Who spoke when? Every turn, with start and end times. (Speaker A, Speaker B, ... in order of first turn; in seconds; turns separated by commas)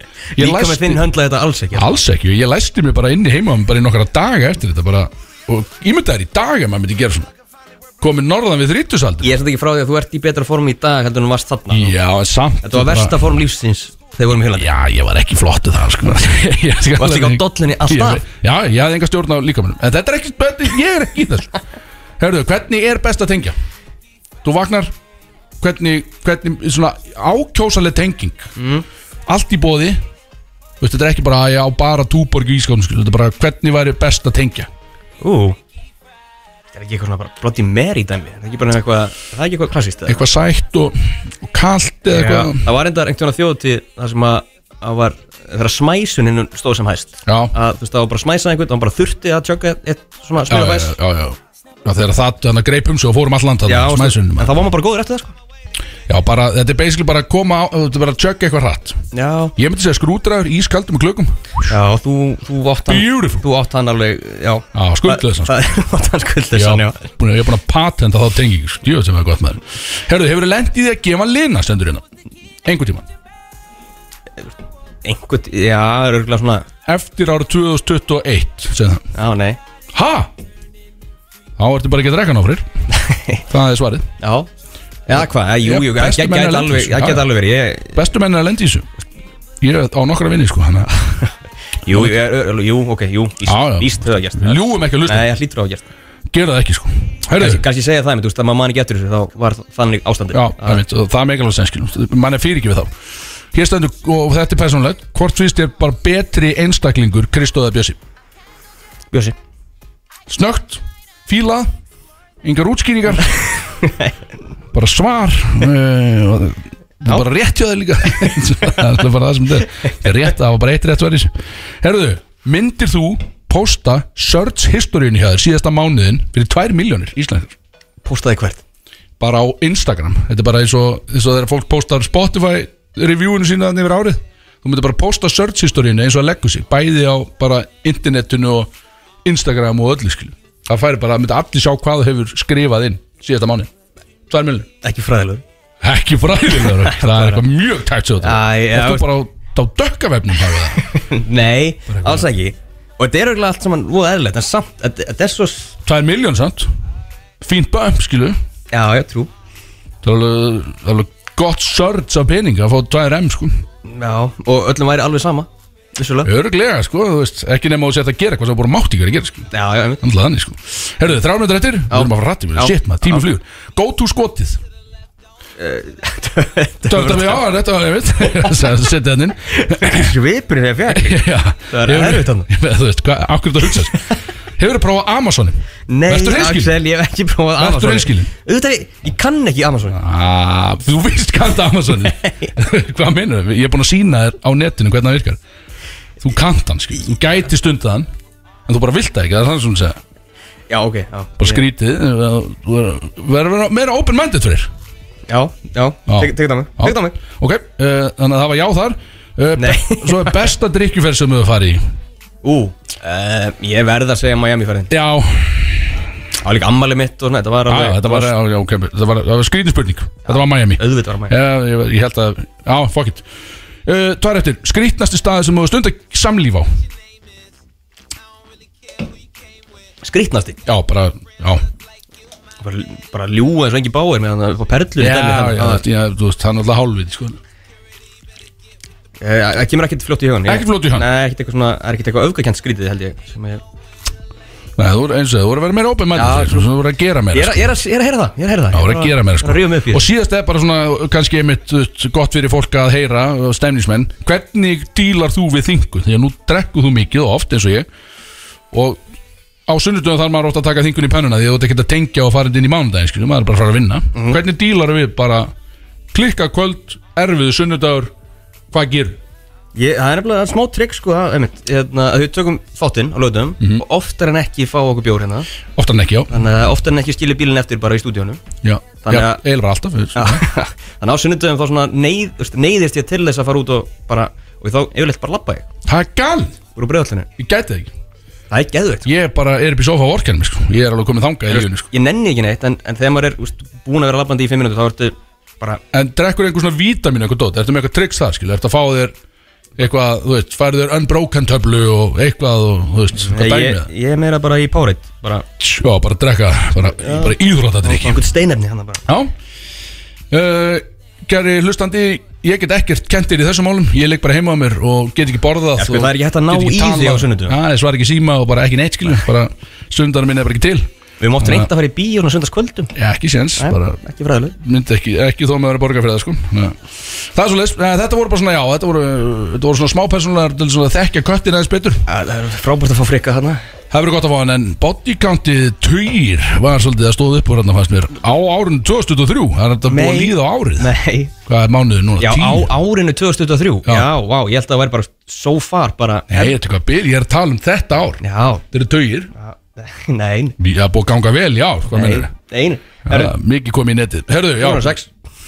Speaker A: 0.3-1.1, Speaker B: 0.4-2.0, Speaker A: 1.7-7.3, Speaker A: 8.0-9.3, Speaker B: 9.2-11.9, Speaker A: 11.7-13.3, Speaker B: 12.6-14.7, Speaker A: 14.5-21.6, Speaker B: 17.0-18.2, Speaker A: 22.2-23.6, Speaker A: 24.4-24.9, Speaker A: 25.6-28.5, Speaker B: 28.6-28.8, Speaker A: 29.3-30.0, Speaker A: 30.8-34.7, Speaker B: 35.2-35.6, Speaker B: 36.7-40.2, Speaker A: 40.1-42.6, Speaker B: 42.1-50.9, Speaker A: 47.2-47.5, Speaker A: 50.5-54.6, Speaker B: 53.7-55.3, Speaker A: 56.1-59.0, Speaker B: 59.1-59.5, Speaker A: 59.5-61.7, Speaker B: 61.7-67.0, Speaker A: 62.9-63.4, Speaker A: 64.7-65.5, Speaker A: 66.5-72.0, Speaker A: 72.6-73.0, Speaker B: 75.0-76.7, Speaker A: 76.8-79.0, Speaker B: 79.1-79.6, Speaker A: 79.9-80.3, Speaker A: 81.6-82.7, Speaker B: 82.9-83.4, Speaker A: 83.5-84.1, Speaker B: 84.2-84.5, Speaker B: 85.1-87.9, Speaker A: 85.6-87.3, Speaker A: 87.9-88.9, Speaker A: 89.6-91.0, Speaker B: 91.0-91.3, Speaker B: 91.8-95.9, Speaker A: 93.5-95.3, Speaker A: 96.3-97.6, Speaker B: 97.4-100.8, Speaker A: 100.3-102.9, Speaker A: 103.5-108.0, Speaker B: 109.1-109.3, Speaker A: 110.3-111.7, Speaker A: 112.4-113.3, Speaker B: 113.8-114.1, Speaker A: 114.7-121.3, Speaker A: 121.8-127.5, Speaker B: 128.0-128.6, Speaker A: 129.2-138.7, Speaker A: 139.2-143.7, Speaker A: 144.3-144.7, Speaker B: 144.8-145.4, Speaker A: 145.8-151.0, Speaker B: 146.5-147.4, Speaker B: 148.2-149.1, Speaker B: 150.8-155.7, Speaker A: 151.9-152.3, Speaker A: 155.8-156.7, Speaker A: 157.4-158.4, Speaker B: 158.7-159.3, Speaker A: 160.0-163.6, Speaker B: 163.8-166.3, Speaker A: 166.2-169.5, Speaker B: 169.5-170.0, Speaker A: 170.0-174.6, Speaker B: 171.9-173.2, Speaker B: 175.6-177.4, Speaker A: 176.9-180.1, Speaker B: 179.5-182.5, Speaker A: 180.9-184.0, Speaker A: 184.6-186.8, Speaker B: 185.9-190.0, Speaker A: 187.6-188.3, Speaker A: 189.9-195.4, Speaker B: 192.1-192.5, Speaker A: 196.2-198.1, Speaker A: 198.7-200.0, Speaker B: 200.7-201.6, Speaker A: 201.4-204.7, Speaker B: 205.3-207.2, Speaker A: 206.1-211.8, Speaker B: 209.6-210.5, Speaker B: 212.4-214.9, Speaker A: 214.9-216.0, Speaker B: 216.4-218.3, Speaker A: 217.7-223.2, Speaker B: 220.3-221.3, Speaker A: 223.8-226.7, Speaker B: 230.0-230.6, Speaker A: 230.7-231.6, Speaker B: 232.6-235.8, Speaker A: 235.0-237.4, Speaker B: 239.2-243.6, Speaker A: 240.5-241.1, Speaker A: 244.8-247.7, Speaker B: 246.1-246.7, Speaker B: 247.3-250.1, Speaker A: 248.7-257.9, Speaker A: 258.7-259.0, Speaker A: 259.7-265.5, Speaker A: 266.1-268.1, Speaker A: 268.7-269.2, Speaker B: 269.7-275.5, Speaker A: 275.8-276.4, Speaker B: 276.3-278.4, Speaker A: 278.6-280.4, Speaker B: 279.0-279.4, Speaker B: 280.1-285.7, Speaker A: 285.9-286.6, Speaker B: 286.8-287.3, Speaker A: 287.4-287.9, Speaker B: 288.5-289.1, Speaker A: 289.0-291.9, Speaker B: 291.5-295.8, Speaker A: 295.9-299.1, Speaker A: 299.8-303.9, Speaker B: 303.2-305.4, Speaker A: 305.6-308.2, Speaker B: 307.0-309.0, Speaker A: 309.1-309.3, Speaker A: 310.3-321.7, Speaker B: 315.8-317.6, Speaker B: 321.2-322.9, Speaker A: 322.9-324.0, Speaker B: 323.6-324.5, Speaker A: 324.6-332.0, Speaker B: 332.1-333.6, Speaker A: 333.9-340.9, Speaker B: 339.9-341.3, Speaker A: 341.5-342.7, Speaker B: 342.2-346.5, Speaker A: 346.3-349.3, Speaker B: 348.2-348.6, Speaker B: 349.4-350.6, Speaker A: 350.6-352.3, Speaker B: 351.9-353.3, Speaker A: 353.1-355.0, Speaker B: 354.6-355.1